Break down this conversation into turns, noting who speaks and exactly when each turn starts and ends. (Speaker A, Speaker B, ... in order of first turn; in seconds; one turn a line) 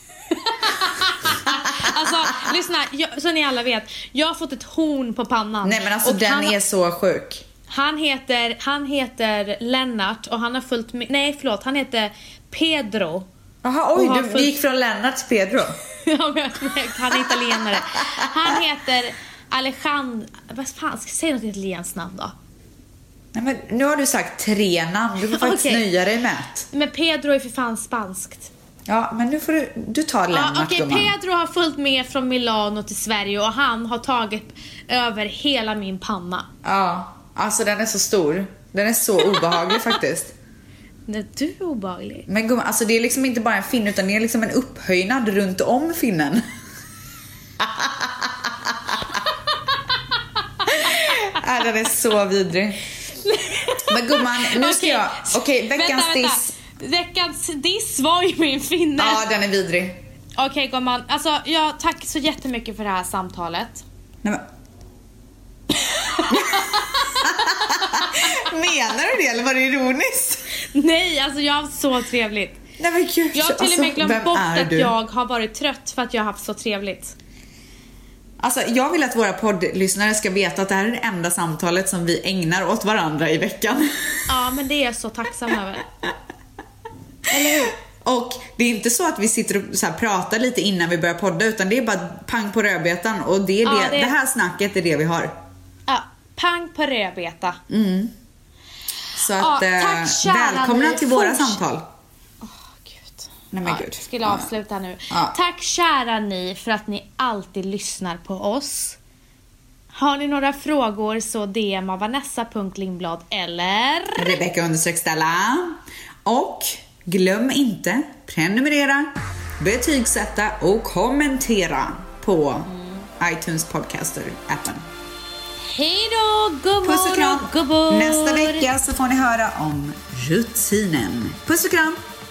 Speaker A: 0.3-6.6
Speaker B: 1.2-2.2
Speaker B: 5.6-7.4
Speaker A: 7.7-13.3
Speaker B: 13.6-15.8
Speaker A: 13.9-14.6
Speaker A: 16.0-22.3
Speaker B: 17.1-18.6
Speaker B: 23.3-26.7
Speaker A: 25.2-25.9
Speaker A: 26.7-28.5
Speaker B: 28.9-31.1
Speaker A: 30.3-36.5
Speaker B: 36.6-40.4
Speaker A: 39.5-40.0
Speaker A: 41.1-42.3
Speaker B: 42.3-46.4
Speaker B: 47.6-49.2
Speaker A: 50.6-51.2
Speaker B: 50.7-52.8
Speaker A: 53.2-59.3
Speaker B: 53.9-56.5
Speaker B: 59.0-60.0
Speaker A: 60.4-63.8
Speaker A: 65.7-68.5
Speaker B: 66.3-70.4
Speaker A: 70.7-72.6
Speaker B: 72.8-74.9
Speaker A: 73.3-77.2
Speaker B: 78.4-84.3
Speaker A: 84.3-85.9
Speaker A: 87.3-87.8
Speaker B: 87.5-95.3
Speaker A: 93.6-94.2
Speaker A: 95.9-97.6
Speaker B: 97.7-98.1
Speaker B: 99.2-101.8
Speaker A: 99.3-101.6
Speaker A: 102.4-109.0
Speaker B: 103.5-104.5
Speaker A: 109.9-114.4
Speaker B: 114.2-124.9
Speaker A: 122.7-123.1
Speaker A: 125.6-128.7
Speaker B: 126.8-132.0